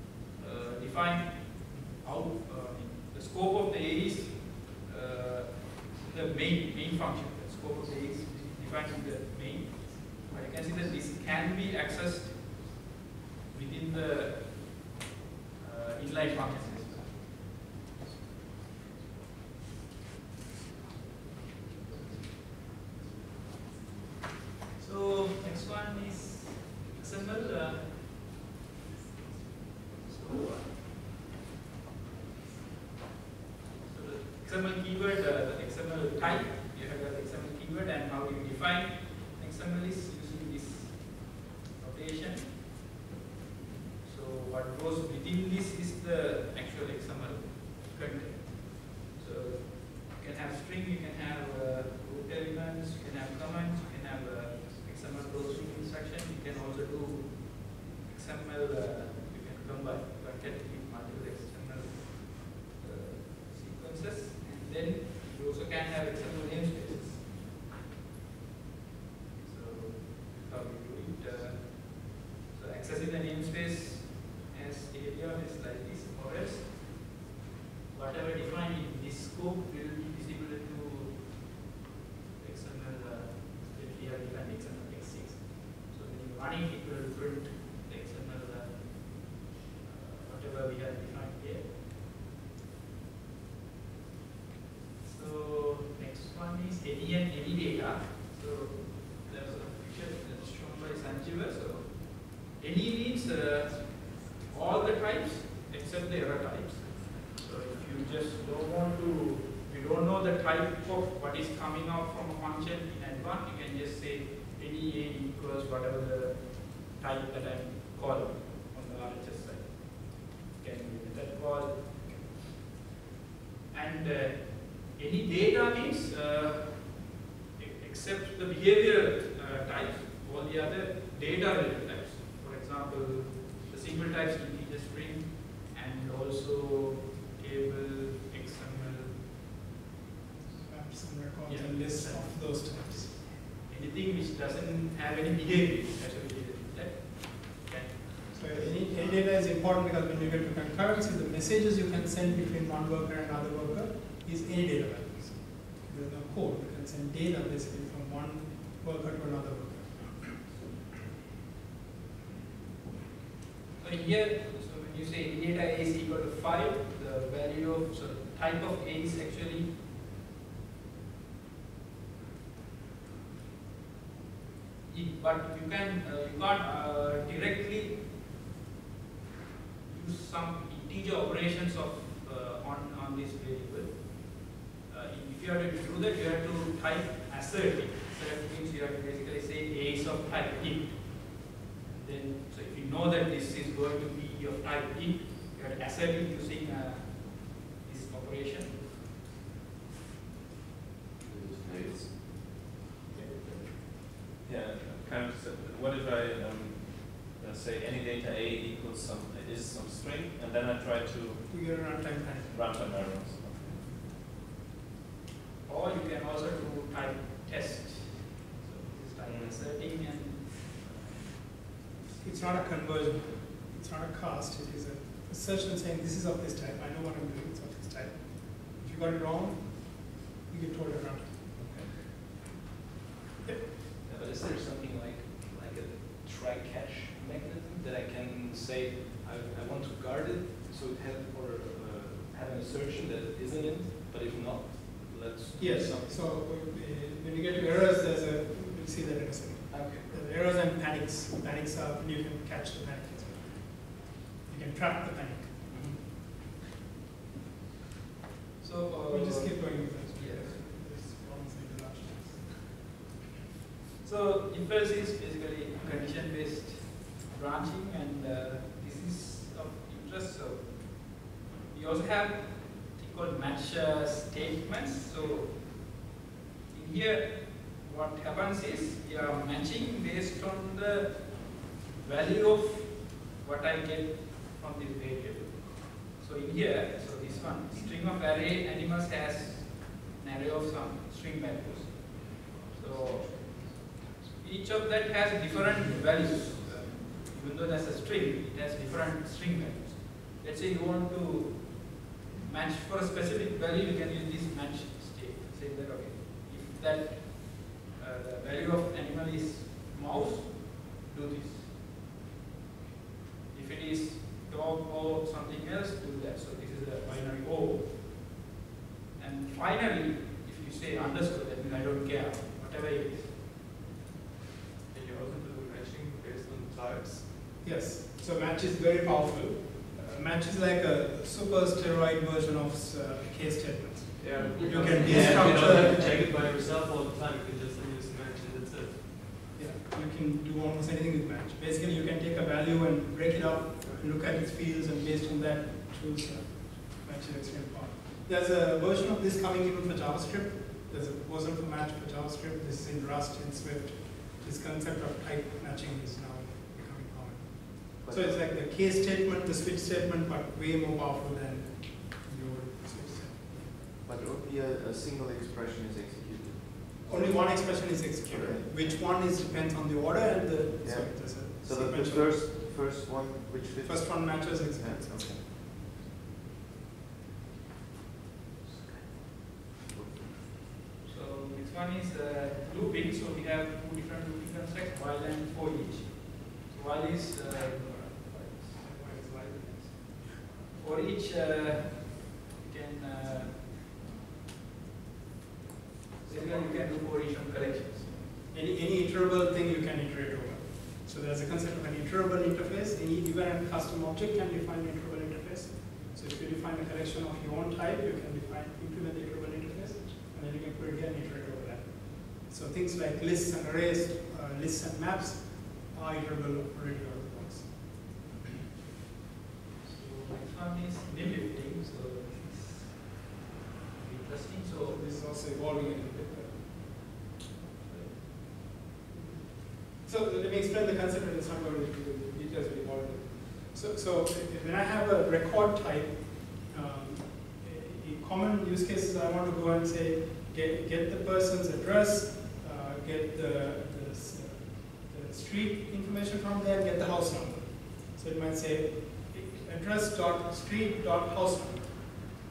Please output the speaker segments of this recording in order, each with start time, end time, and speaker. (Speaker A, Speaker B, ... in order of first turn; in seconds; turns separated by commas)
Speaker A: 0.3-12.6, Speaker A: 13.5-14.8, Speaker A: 15.6-17.3, Speaker A: 24.8-28.0, Speaker A: 30.1-30.8, Speaker A: 33.9-42.7, Speaker A: 44.0-67.4, Speaker A: 69.4-77.0, Speaker A: 77.9-81.5, Speaker A: 82.4-91.7, Speaker A: 95.0-122.4, Speaker A: 123.7-139.4, Speaker B: 140.6-143.2, Speaker A: 141.4-149.0, Speaker B: 148.3-160.3, Speaker A: 163.8-169.8, Speaker A: 174.9-178.1, Speaker A: 179.9-198.9, Speaker C: 201.2-202.2, Speaker B: 203.1-203.6, Speaker D: 204.4-211.7, Speaker B: 211.5-213.0, Speaker D: 212.5-213.8, Speaker A: 215.6-222.3, Speaker D: 219.3-219.6, Speaker B: 222.2-231.7, Speaker E: 234.0-246.2, Speaker B: 245.6-256.0, Speaker E: 249.7-250.1, Speaker A: 258.6-260.6, Speaker B: 259.1-262.6, Speaker A: 264.0-276.0, Speaker A: 276.7-293.8, Speaker A: 294.4-312.0, Speaker A: 313.5-318.1, Speaker A: 319.2-323.4, Speaker F: 324.9-327.4, Speaker B: 327.6-336.2, Speaker F: 334.2-339.3, Speaker E: 334.6-336.3, Speaker B: 339.6-363.7, Speaker F: 343.8-344.1, Speaker C: 358.0-358.4, Speaker C: 364.0-367.4, Speaker B: 367.1-372.4, Speaker C: 368.3-368.7, Speaker C: 370.8-375.4, Speaker B: 373.8-375.4, Speaker C: 379.9-380.4, Speaker A: 381.0-389.0, Speaker B: 388.7-390.2, Speaker A: 390.8-393.8, Speaker A: 396.2-398.3, Speaker B: 396.3-397.0, Speaker B: 398.5-417.9, Speaker A: 419.8-423.2, Speaker A: 423.9-425.0, Speaker B: 424.9-426.6, Speaker A: 427.8-428.6, Speaker B: 429.1-452.2